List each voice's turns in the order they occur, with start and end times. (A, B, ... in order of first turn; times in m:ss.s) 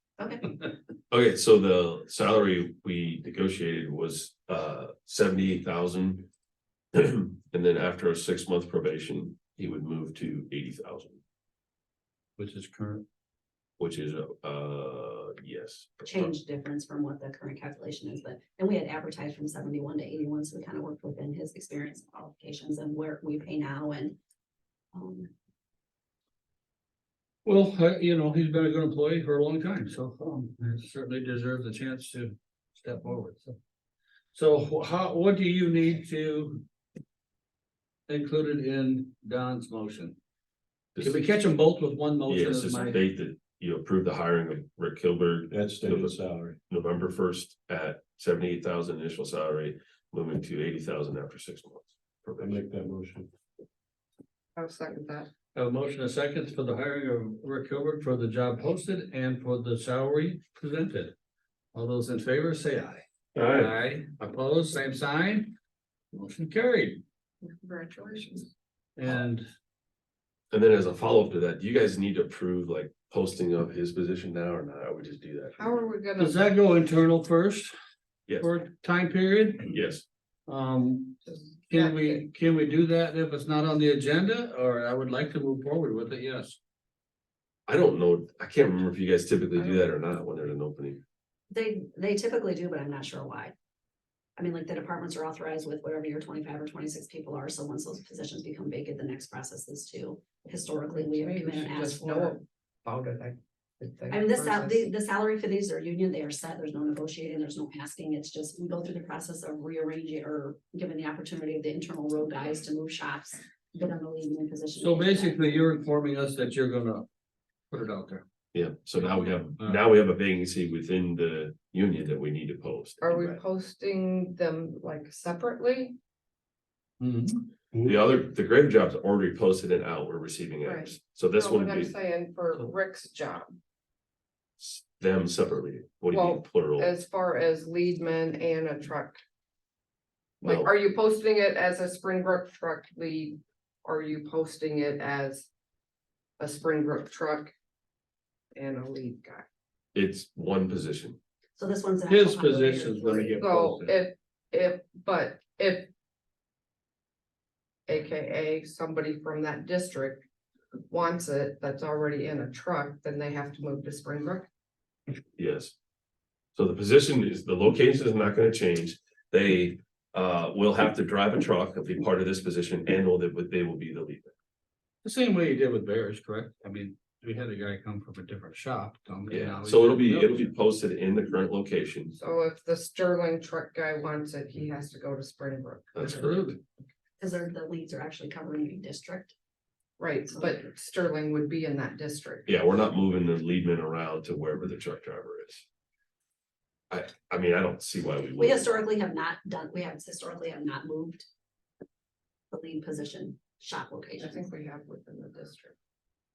0:00.2-0:00.4 A
0:00.4-0:00.7 B
0:01.1-0:06.3 C
0:06.9-0:11.2 C
0:12.4-0:13.0 B
0:13.8-0:16.3 C
0:16.0-0:24.2 A
0:24.9-0:25.3 A
0:27.4-0:33.6 B
0:34.3-0:36.6 B
0:38.1-0:40.2 B
0:41.0-0:41.2 C
0:41.0-0:43.0 B
0:42.3-0:46.2 C
0:45.5-0:46.6 D
0:46.7-0:52.6 C
0:52.4-0:53.3 D
0:54.6-0:55.3 E
0:55.6-1:01.1 B
1:01.7-1:05.5 B
1:03.4-1:03.7 C
1:06.1-1:07.0 B
1:07.4-1:08.5 E
1:09.0-1:09.4 B
1:10.5-1:15.6 C
1:15.6-1:16.5 E
1:16.2-1:17.7 B
1:18.4-1:19.8 B
1:19.7-1:20.0 C
1:20.5-1:26.6 B
1:21.2-1:22.2 E
1:27.7-1:31.0 C
1:31.5-1:33.5 A
1:34.4-1:42.4 A
1:40.9-1:44.9 E
1:44.1-1:55.7 A
1:54.8-1:57.1 B
1:57.7-1:58.2 B
1:58.5-2:03.3 C
2:03.0-2:06.0 E
2:07.0-2:07.4 B
2:07.8-2:11.9 C
2:10.6-2:13.5 E
2:14.6-2:16.9 C
2:16.1-2:19.2 E
2:20.4-2:20.7 C
2:20.4-2:25.5 E
2:26.4-2:27.5 E
2:28.6-2:29.4 E
2:29.9-2:31.2 C
2:31.6-2:33.4 A
2:32.1-2:34.0 B
2:33.4-2:35.9 E
2:37.9-2:40.2 E
2:40.9-2:44.5 E
2:45.4-2:45.8 C
2:46.6-2:54.3 C
2:55.0-3:00.5 B
2:59.3-3:02.1 C
3:02.2-3:06.1 E
3:06.0-3:06.5 C
3:06.0-3:06.6 B
3:07.2-3:09.4 A
3:10.0-3:12.5 E
3:12.5-3:15.6 C
3:16.9-3:18.8 C
3:18.4-3:21.3 A
3:22.5-3:24.4 A
3:24.2-3:25.8 E